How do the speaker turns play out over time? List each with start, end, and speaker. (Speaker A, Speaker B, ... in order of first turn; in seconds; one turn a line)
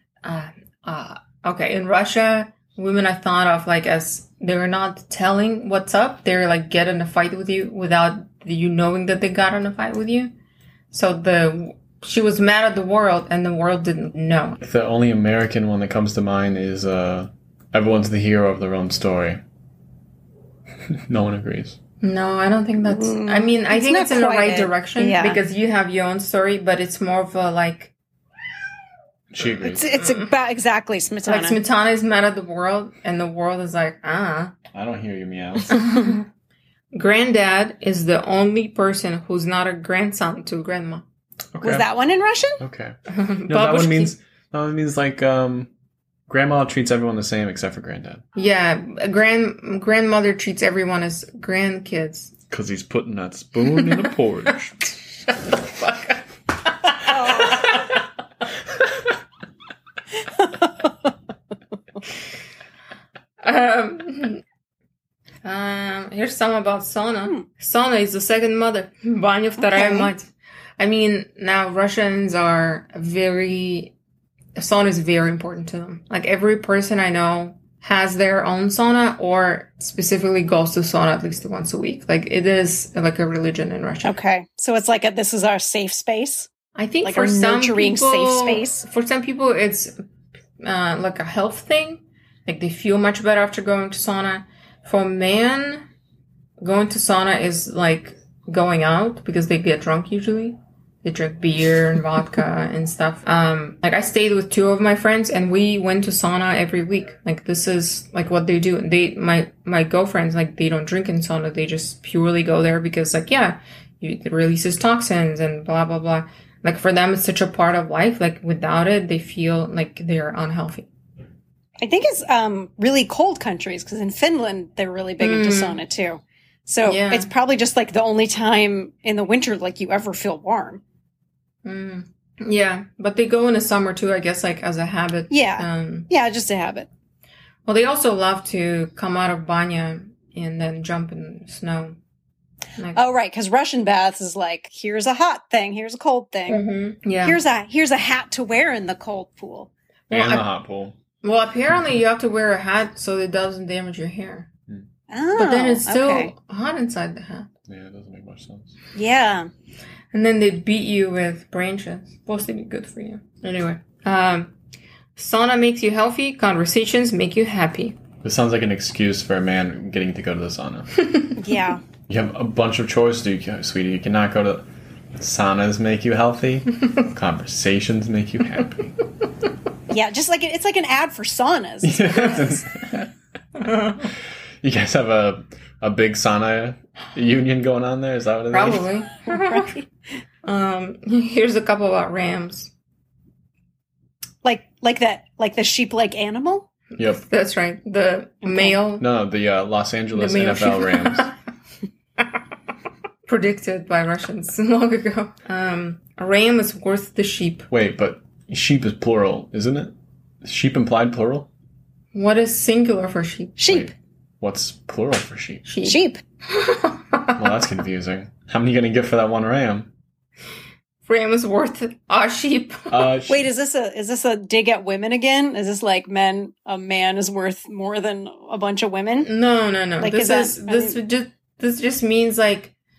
Speaker A: 0.2-10.3
Speaker A: 10.9-14.6
Speaker B: 14.6-19.4
Speaker B: 20.9-21.8
Speaker A: 22.0-27.9
Speaker C: 22.8-25.4
Speaker B: 29.3-30.0
Speaker C: 29.6-31.6
Speaker A: 30.0-30.3
Speaker A: 31.2-34.5
Speaker B: 34.7-35.8
Speaker A: 35.7-36.2
Speaker A: 36.9-41.0
Speaker B: 41.5-41.9
Speaker C: 41.6-42.6
Speaker B: 42.6-43.0
Speaker A: 43.1-44.1
Speaker B: 43.5-45.7
Speaker B: 46.3-48.2
Speaker A: 48.4-52.3
Speaker B: 52.5-54.8
Speaker A: 55.5-56.2
Speaker A: 56.9-57.7
Speaker C: 57.1-57.7
Speaker A: 63.4-64.4
Speaker A: 65.4-73.9
Speaker C: 69.7-70.1
Speaker A: 74.6-84.2
Speaker C: 84.0-86.5
Speaker A: 86.7-89.9
Speaker C: 87.0-88.8
Speaker A: 90.6-95.8
Speaker A: 96.6-120.9
Speaker C: 121.8-130.8
Speaker A: 125.2-125.8
Speaker A: 126.8-127.3
Speaker A: 131.6-136.1
Speaker C: 135.3-136.9
Speaker A: 137.7-141.9
Speaker A: 142.8-143.0
Speaker C: 142.9-146.6
Speaker A: 146.5-147.4
Speaker C: 147.2-149.7
Speaker A: 150.1-150.5
Speaker B: 150.1-150.9
Speaker A: 151.2-154.5
Speaker C: 155.1-156.3
Speaker A: 155.3-157.5
Speaker B: 157.7-158.7
Speaker C: 158.9-159.5
Speaker A: 160.1-164.5
Speaker A: 165.2-168.0
Speaker B: 168.2-170.9
Speaker C: 171.4-171.8
Speaker B: 172.1-178.9
Speaker C: 179.9-182.6
Speaker B: 181.8-183.1
Speaker A: 183.6-184.0
Speaker B: 184.6-188.9
Speaker A: 188.5-189.7
Speaker C: 189.3-189.9
Speaker A: 190.4-192.7
Speaker C: 194.4-196.7
Speaker A: 196.9-199.1
Speaker C: 198.4-198.8
Speaker B: 199.0-201.3
Speaker A: 200.1-201.3
Speaker A: 203.3-207.7
Speaker B: 207.7-211.5
Speaker A: 212.1-213.6
Speaker C: 213.6-213.9
Speaker B: 213.7-215.6
Speaker A: 215.6-217.4
Speaker C: 215.8-216.2
Speaker B: 217.4-219.9
Speaker A: 221.1-223.1
Speaker B: 222.9-223.5
Speaker C: 223.3-229.3
Speaker A: 229.2-232.7
Speaker C: 230.0-231.0